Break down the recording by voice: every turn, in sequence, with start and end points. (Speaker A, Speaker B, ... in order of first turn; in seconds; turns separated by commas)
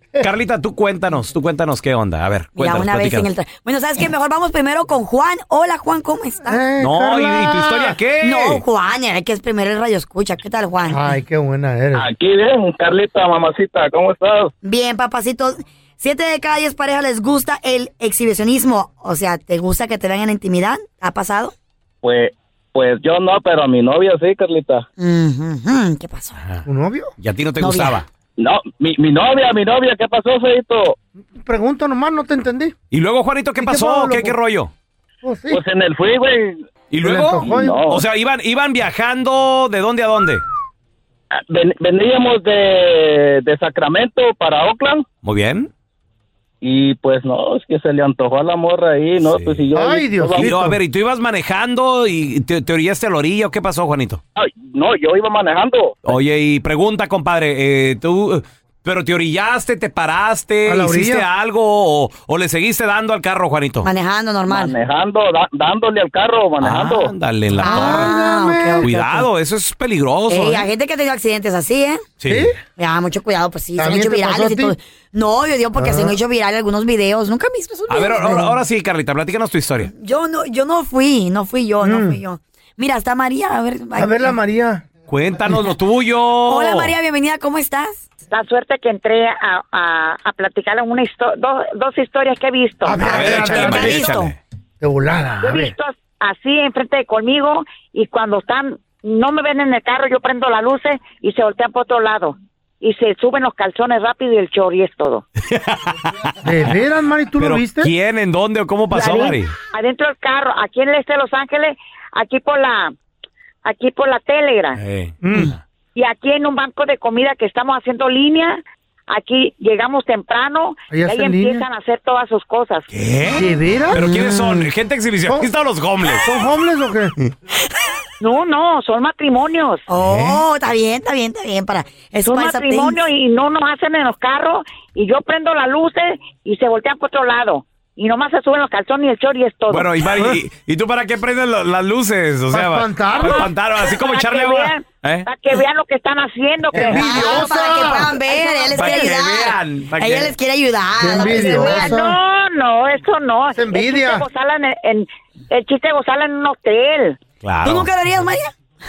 Speaker A: 0.2-3.3, Speaker B: 2.6-6.6, Speaker C: 6.5-8.0, Speaker A: 6.8-8.6, Speaker B: 8.2-11.1, Speaker C: 10.9-12.1, Speaker D: 12.0-14.5, Speaker B: 14.6-21.5, Speaker D: 22.0-24.9, Speaker B: 25.0-26.4, Speaker C: 26.6-27.1, Speaker A: 27.2-28.1, Speaker B: 27.6-28.0, Speaker D: 28.4-31.0, Speaker C: 31.3-32.8, Speaker A: 32.9-34.7, Speaker C: 33.6-34.3, Speaker C: 35.2-35.6, Speaker D: 35.5-36.6, Speaker A: 36.9-40.4, Speaker C: 37.0-37.8, Speaker D: 37.4-38.0, Speaker D: 41.3-45.0, Speaker A: 45.2-45.7, Speaker D: 46.6-50.5, Speaker A: 49.2-49.6, Speaker C: 49.8-50.8, Speaker A: 50.4-54.2, Speaker D: 54.4-56.0, Speaker A: 56.0-63.9, Speaker C: 60.7-61.3, Speaker B: 63.8-64.8, Speaker D: 64.5-67.1, Speaker A: 66.6-68.2, Speaker B: 67.6-69.3, Speaker C: 67.6-68.9, Speaker A: 68.8-70.7, Speaker B: 70.3-72.0, Speaker A: 72.2-72.5, Speaker C: 72.3-72.6, Speaker B: 72.7-78.6, Speaker C: 73.8-74.8, Speaker C: 75.8-76.2, Speaker A: 77.9-79.9, Speaker B: 79.9-84.2, Speaker C: 81.8-82.2, Speaker C: 84.0-84.8, Speaker A: 85.1-86.9, Speaker B: 86.5-88.0, Speaker E: 88.3-93.0, Speaker C: 92.8-94.2, Speaker A: 93.0-94.3, Speaker B: 93.1-94.3, Speaker C: 94.8-95.7, Speaker E: 95.4-105.2, Speaker A: 105.5-106.1, Speaker C: 106.4-107.9, Speaker A: 107.4-109.5, Speaker E: 109.0-112.9, Speaker E: 113.6-114.8, Speaker A: 114.8-115.6, Speaker C: 115.2-115.5, Speaker E: 115.9-122.9, Speaker C: 120.9-121.6, Speaker A: 122.9-126.2, Speaker C: 123.3-124.0, Speaker B: 123.9-124.7, Speaker C: 126.1-127.3, Speaker E: 128.2-129.9, Speaker B: 129.9-133.0, Speaker A: 130.0-130.4, Speaker E: 132.2-139.9, Speaker A: 139.7-145.3, Speaker C: 142.5-143.5, Speaker E: 143.9-147.5, Speaker C: 146.9-148.1, Speaker B: 146.9-152.0, Speaker E: 148.5-148.8, Speaker A: 148.7-150.3, Speaker C: 151.0-152.2, Speaker E: 151.6-157.2, Speaker C: 153.6-154.2, Speaker A: 157.4-157.9, Speaker B: 157.6-158.5